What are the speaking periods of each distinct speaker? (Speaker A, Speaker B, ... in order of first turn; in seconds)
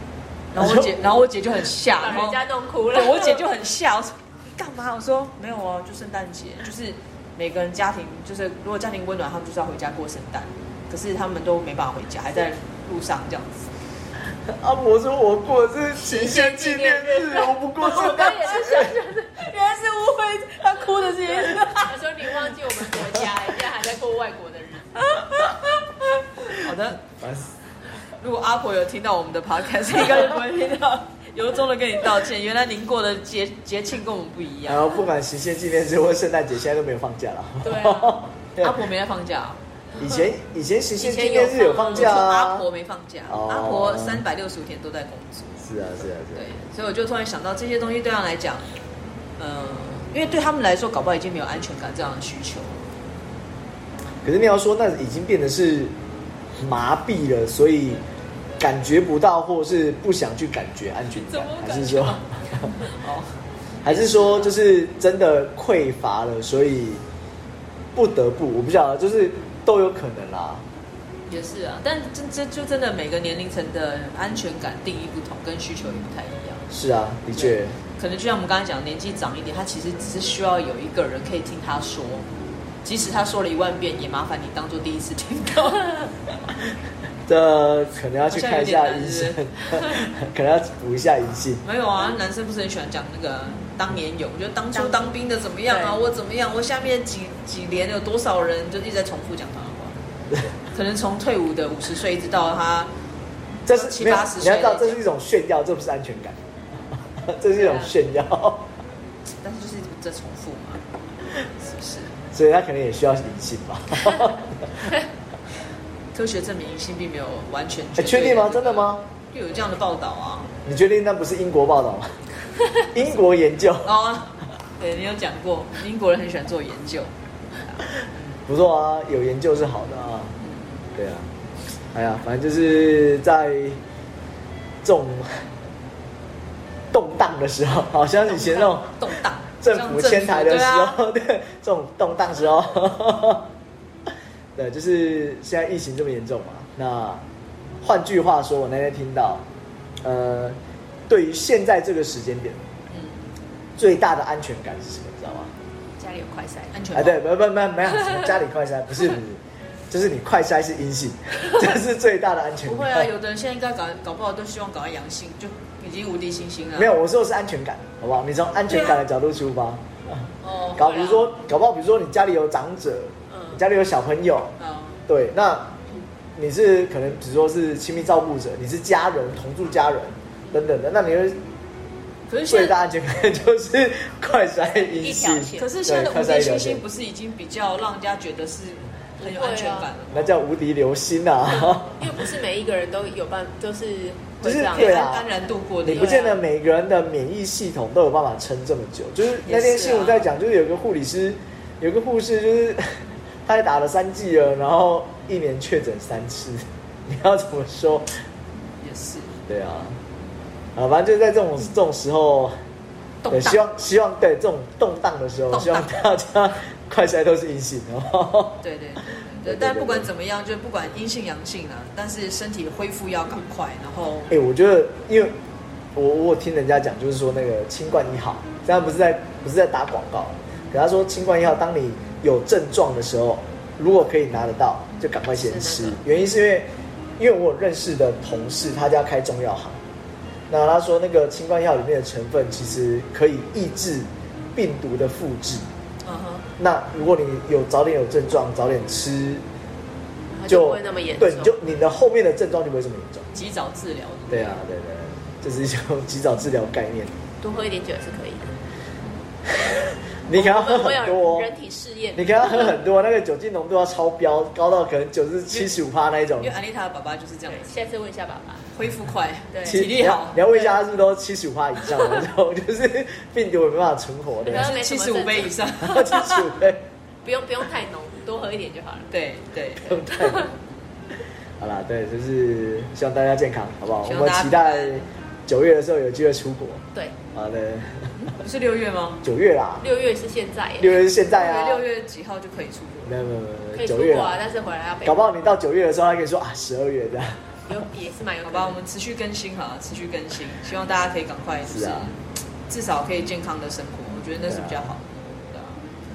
Speaker A: 0.5-13.7, 17.9-22.3, 25.1-27.0, 28.2-34.9, 38.6-39.6, 41.0-45.7, 46.3-48.6, 49.4-52.9, 61.1-64.5, 71.3-76.7, 77.3-82.2, 82.8-86.1, 88.3-89.4, 91.6-100.0, 100.7-102.9, 103.7-105.0, 107.5-107.9, 109.4-110.8, 111.6-112.2, 116.1-120.5, 123.8-127.1, 127.7-128.2, 130.4-130.8, 138.2-141.0, 152.9-153.2, 156.7-157.2, 162.6-166.9, 168.7-169.0, 170.4-171.3, 174.6-175.0, 182.3-182.8, 185.6-190.4, 194.7-196.4, 199.4-200.3, 208.8-209.4, 213.2-213.6, 215.5-215.9, 218.6-224.3, 246.0-246.5, 253.3-254.6, 265.5-265.8, 266.4-267.7, 268.7-270.5, 274.4-276.5, 279.1-280.7, 284.0-285.0, 288.2-289.2, 291.3-293.2, 298.4-305.8
Speaker B: 0.5-1.0, 14.4-19.0, 27.0-27.5, 34.7-38.8, 40.0-42.6, 43.3-44.2, 45.6-46.4, 54.2-55.9, 56.6-58.0, 58.6-62.9, 63.8-67.0, 67.9-70.6, 76.7-77.7, 87.2-91.6, 103.7-106.4, 107.1-108.7, 112.3-114.9, 118.0-119.0, 120.6-122.2, 122.9-123.9, 128.5-130.3, 130.9-131.3, 131.9-133.8, 134.8-135.4, 136.9-143.5, 144.5-147.2, 147.8-149.4, 150.0-150.6, 151.1-152.6, 153.8-155.5, 156.9-163.1, 166.8-174.5, 175.1-175.7, 176.3-181.4, 182.5-186.8, 190.1-192.1, 194.4-195.2, 195.8-208.1, 209.5-210.0, 210.7-212.6, 213.3-220.1, 224.3-225.3, 225.9-239.8, 240.5-245.7, 246.6-249.4, 250.5-253.3, 254.3-257.1, 259.5-261.5, 262.1-266.5, 269.6-274.7, 275.8-276.8, 279.8-280.5, 281.6-288.1, 289.2-289.9, 290.8-291.9, 293.1-294.4, 295.0-297.4, 301.6-302.1, 304.5-304.8
Speaker C: 2.0-3.5, 16.0-19.4, 21.5-25.1, 37.6-38.2, 94.7-95.1, 95.7-96.0, 156.0-156.8, 185.0-185.7, 189.2-189.9, 191.5-195.1, 195.9-196.4, 235.4-236.0, 250.3-251.5, 257.4-258.5, 260.3-262.7, 267.5-268.7, 269.5-269.9, 271.9-272.2, 274.4-275.6, 277.2-279.1, 289.8-291.1, 293.7-295.3, 297.7-298.8